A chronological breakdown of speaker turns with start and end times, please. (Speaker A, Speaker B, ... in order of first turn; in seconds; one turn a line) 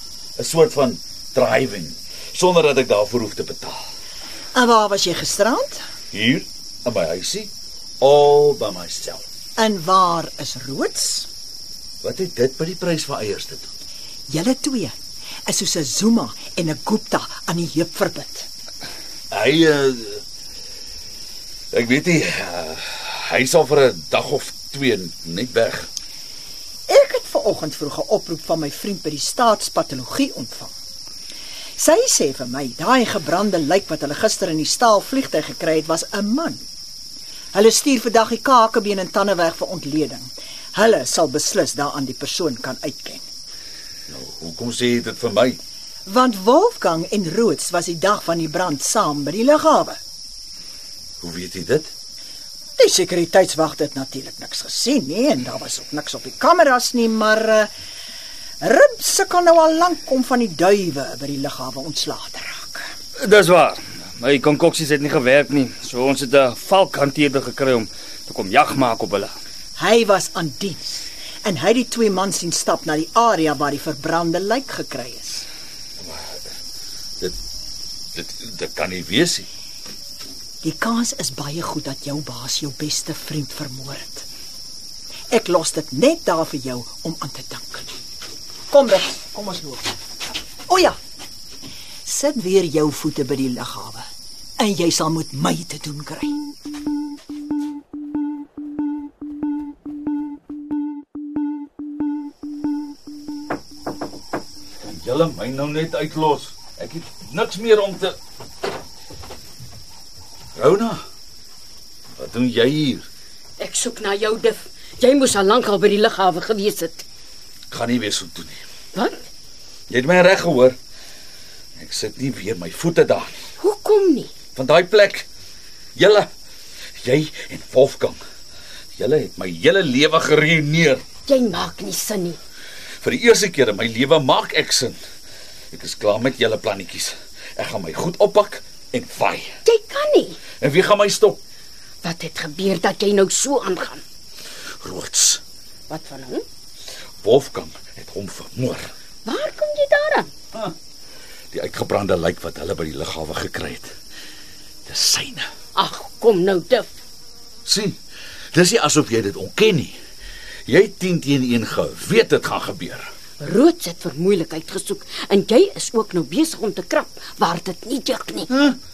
Speaker A: 0.4-3.8
Speaker B: 4.5-5.8
Speaker A: 6.1-9.2
Speaker B: 9.6-11.3
Speaker A: 12.0-13.7
Speaker B: 14.3-14.9
Speaker B: 15.5-18.5
Speaker A: 19.3-20.2
Speaker A: 21.7-25.9
Speaker B: 26.9-30.7
Speaker B: 31.8-36.6
Speaker B: 37.5-43.2
Speaker A: 44.1-45.6
Speaker B: 46.1-50.0
Speaker A: 51.2-51.9
Speaker B: 52.8-57.7
Speaker B: 58.6-62.9
Speaker C: 63.2-69.3
Speaker B: 69.8-75.5
Speaker A: 78.1-79.5
Speaker B: 80.6-84.2
Speaker B: 85.3-87.9
Speaker B: 88.7-89.9
Speaker B: 90.7-91.0
Speaker B: 92.1-94.1
Speaker B: 94.6-96.4
Speaker A: 104.8-108.2
Speaker A: 110.5-111.0
Speaker A: 112.2-113.1
Speaker D: 113.6-117.0
Speaker A: 117.7-118.6
Speaker D: 118.9-119.2
Speaker A: 119.9-120.8
Speaker A: 121.8-123.4
Speaker D: 123.6-124.3
Speaker A: 124.6-125.3
Speaker A: 126.0-126.3
Speaker A: 127.0-128.2
Speaker A: 129.0-131.0
Speaker D: 131.3-132.4
Speaker A: 133.0-135.0
Speaker A: 135.7-139.6
Speaker D: 139.7-140.4
Speaker A: 140.6-141.4
Speaker D: 142.0-144.0
Speaker A: 144.8-145.4
Speaker D: 145.9-146.4
Speaker A: 147.2-148.9
Speaker D: 149.2-150.3
Speaker A: 151.5-153.9
Speaker A: 154.9-155.5
Speaker D: 155.8-156.9
Speaker A: 157.7-158.0
Speaker A: 158.5-160.0
Speaker A: 160.7-163.1
Speaker D: 163.4-168.5
Speaker A: 168.5-168.8